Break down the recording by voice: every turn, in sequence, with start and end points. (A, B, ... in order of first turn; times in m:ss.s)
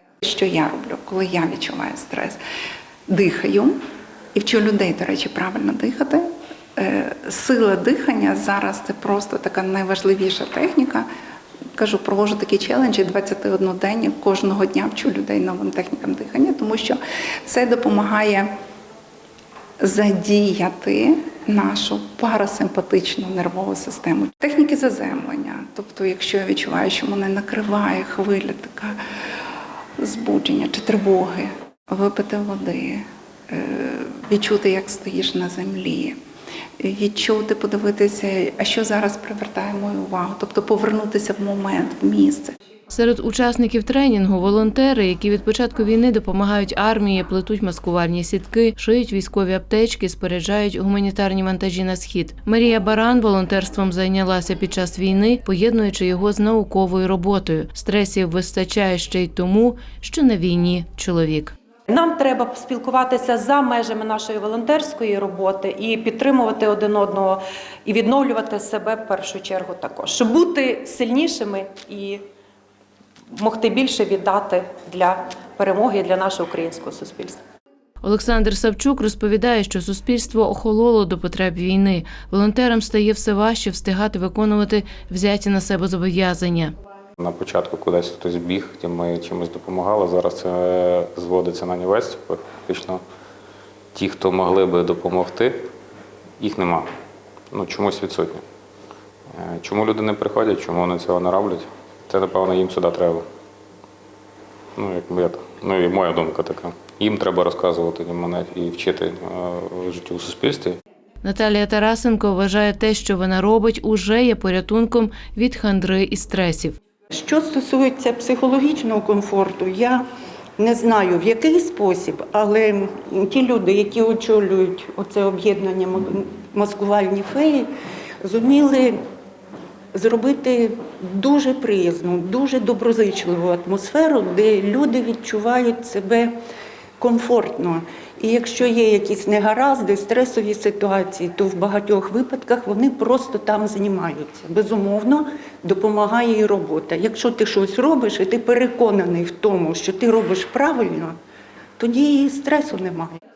0:00.2-0:02.4 A
0:03.1-0:03.8 A
0:04.3-0:11.1 A
0:11.8-0:18.5 A
0:19.8-0:29.0 A
0:30.0-0:36.2 A
0:36.8-0:42.5 A
0:42.9-1:01.5 B
1:01.9-1:12.2 C
1:13.3-1:17.4 C
1:18.0-1:26.7 B
1:27.2-1:33.0 D
1:33.9-1:35.7 D
1:36.4-1:36.9 D
1:37.5-1:38.4 D
1:39.3-1:43.2 D
1:44.8-1:50.8 D
1:51.2-1:56.8 B
1:57.1-2:00.0 E
2:00.6-2:07.7 E
2:08.2-2:09.0 E
2:09.9-2:16.3 E
2:17.0-2:31.2 E
2:31.8-2:33.1 E